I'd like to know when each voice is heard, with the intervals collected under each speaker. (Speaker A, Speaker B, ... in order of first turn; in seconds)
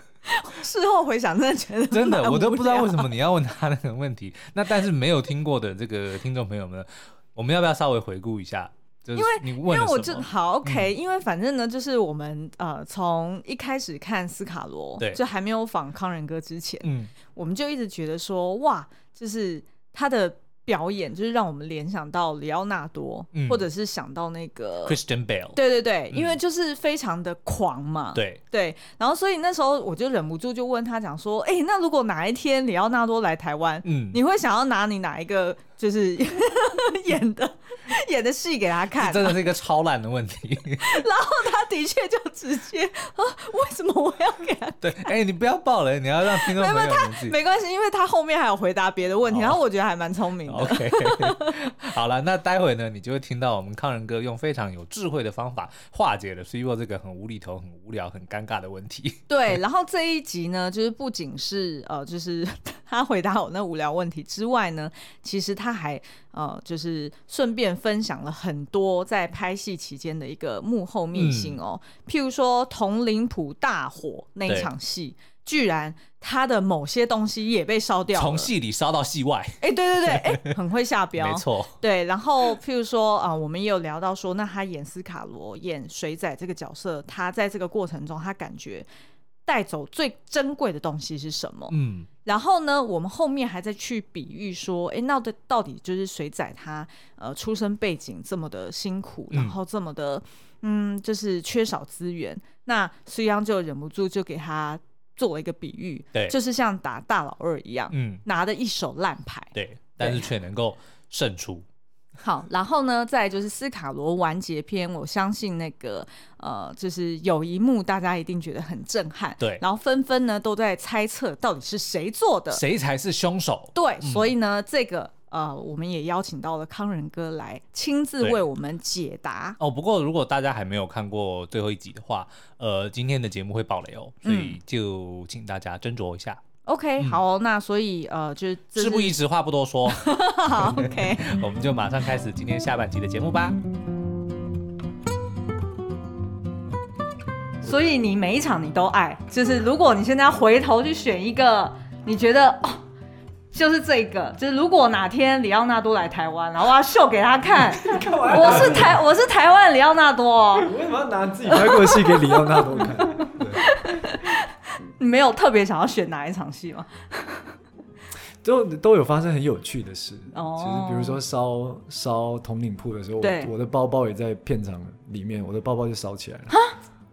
Speaker A: 0.3-3.1, 9.2-25.0, 25.6-39.4, 40.8-45.1, 46.3-51.6, 59.3-78.5, 79.6-88.9, 89.5-110.3, 112.2-122.6, 123.8-129.6, 134.2-134.6, 136.7-139.2, 139.9-141.4, 147.6-152.8, 153.5-160.7, 161.5-164.5, 165.0-167.5, 170.3-171.2, 173.2-173.5
Speaker B: 1.9-10.9, 16.8-17.1, 23.3-23.6, 24.9-25.6, 26.1-26.4, 28.1-28.4, 33.9-34.2, 39.0-41.0, 44.8-47.4, 49.3-49.6, 50.5-59.6, 71.1-71.6, 78.1-80.5, 81.2-81.8, 91.7-92.1, 99.3-99.6, 107.9-108.2, 109.5-111.7, 122.5-124.3, 129.6-136.4, 138.8-143.6
Speaker C: 157.8-159.0, 160.6-163.8, 168.4-176.6